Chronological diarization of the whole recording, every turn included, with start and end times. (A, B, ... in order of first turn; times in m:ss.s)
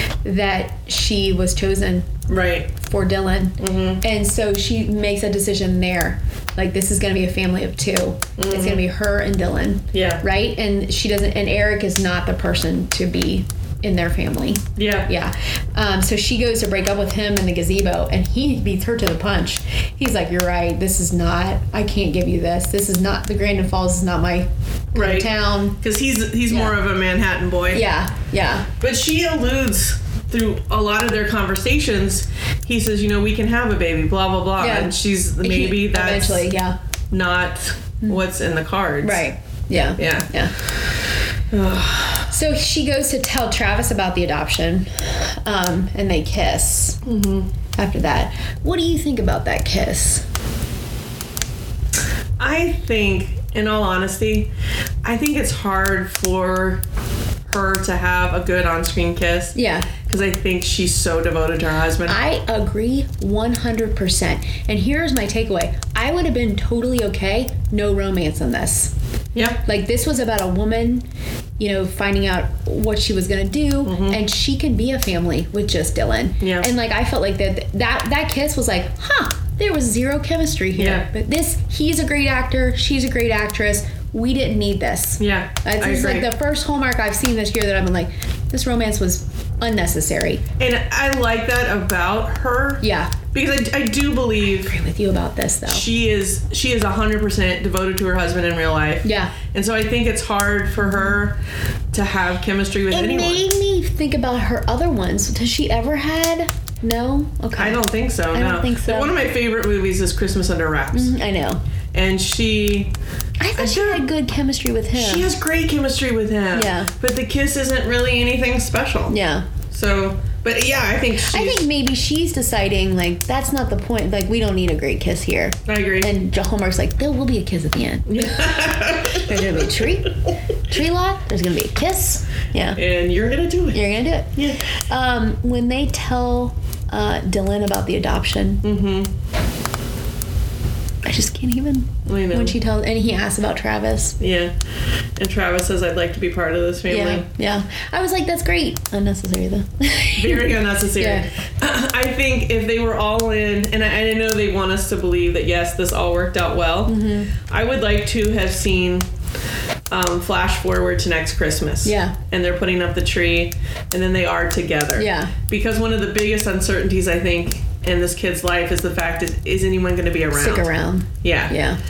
0:00.2-0:02.2 A
0:02.3-0:02.7 B
0:02.8-0:25.8 A
0:03.6-0:04.0 B
0:08.4-0:08.8 B
0:09.9-0:10.2 B
0:14.8-0:15.1 B
0:24.9-0:27.8 B
0:26.5-0:26.8 A
0:27.7-0:28.7 A
0:28.8-0:36.5 B
0:34.6-0:36.8 A
0:37.1-0:39.2 B
0:39.0-0:40.5 A
0:40.0-0:40.3 B
0:41.5-0:42.3 B
0:42.3-0:47.0 A
0:47.0-0:47.5 B
0:47.8-0:50.2 A
0:52.4-0:54.5 B
0:55.0-0:56.8 B
0:57.5-1:02.2 B
0:59.6-0:59.9 A
1:02.1-1:08.9 A
1:09.4-1:09.6 B
1:09.6-1:11.1 A
1:11.6-1:30.4 A
1:13.8-1:14.2 B
1:16.4-1:16.7 B
1:20.8-1:21.1 B
1:25.2-1:26.3 B
1:30.6-1:34.8 B
1:32.8-1:33.2 A
1:34.6-1:35.9 A
1:35.7-1:41.4 B
1:39.0-1:39.3 A
1:41.9-1:43.4 B
1:42.9-1:49.2 A
1:47.6-1:51.1 B
1:50.9-1:51.6 A
1:51.9-1:52.9 B
1:53.4-1:55.3 A
1:53.6-1:54.1 B
1:54.9-1:59.2 B
1:56.5-1:56.9 A
1:59.1-1:59.5 A
1:59.7-2:01.7 B
2:01.2-2:08.5 A
2:05.7-2:06.1 B
2:08.1-2:10.1 B
2:09.1-2:12.8 A
2:12.8-2:13.8 B
2:13.7-2:14.4 A
2:14.4-2:14.7 B
2:14.9-2:18.6 A
2:18.6-2:19.1 B
2:21.0-2:24.2 A
2:22.1-2:22.6 B
2:24.2-2:24.5 B
2:25.2-2:27.3 B
2:26.9-2:31.3 A
2:30.2-2:39.1 B
2:36.9-2:37.3 A
2:39.9-2:50.7 B
2:41.8-2:42.2 A
2:45.0-2:45.3 A
2:50.3-2:51.8 A
2:51.2-2:51.6 B